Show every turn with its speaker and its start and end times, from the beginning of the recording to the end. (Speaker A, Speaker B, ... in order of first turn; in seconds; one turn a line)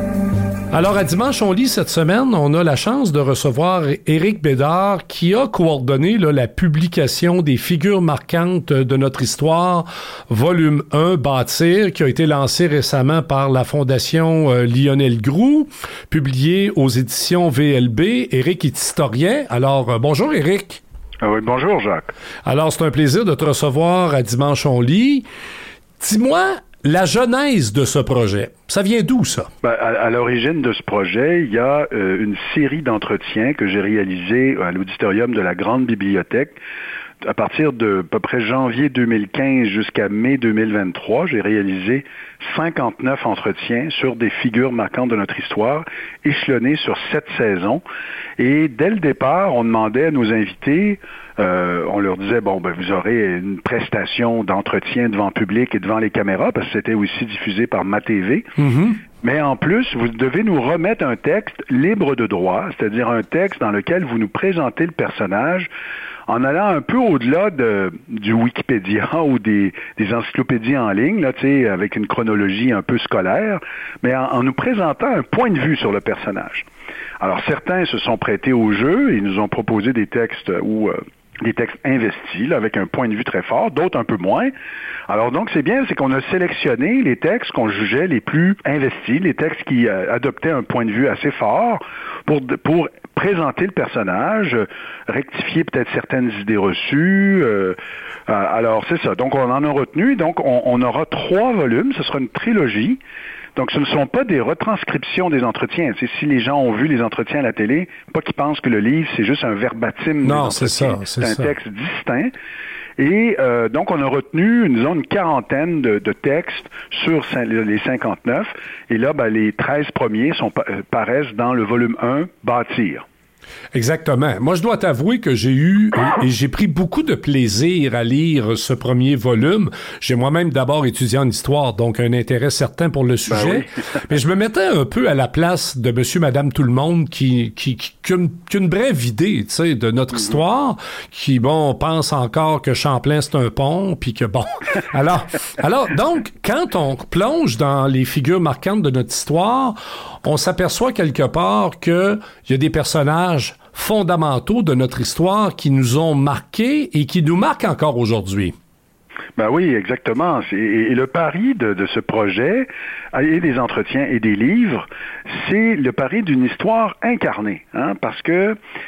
Speaker A: 0.7-20.8
Speaker B: 21.2-22.1
Speaker A: 22.4-25.3
Speaker A: 26.0-29.5
Speaker B: 29.6-36.5
Speaker B: 37.2-47.8
Speaker B: 48.4-58.5
Speaker A: 58.6-59.0
Speaker B: 59.2-65.7
Speaker B: 66.3-76.7
Speaker B: 77.2-84.5
Speaker B: 85.1-97.8
Speaker B: 98.3-103.0
Speaker B: 103.5-112.3
Speaker A: 110.2-111.5
Speaker B: 113.0-123.0
Speaker A: 123.7-158.6
Speaker B: 133.3-133.7
Speaker B: 159.4-168.6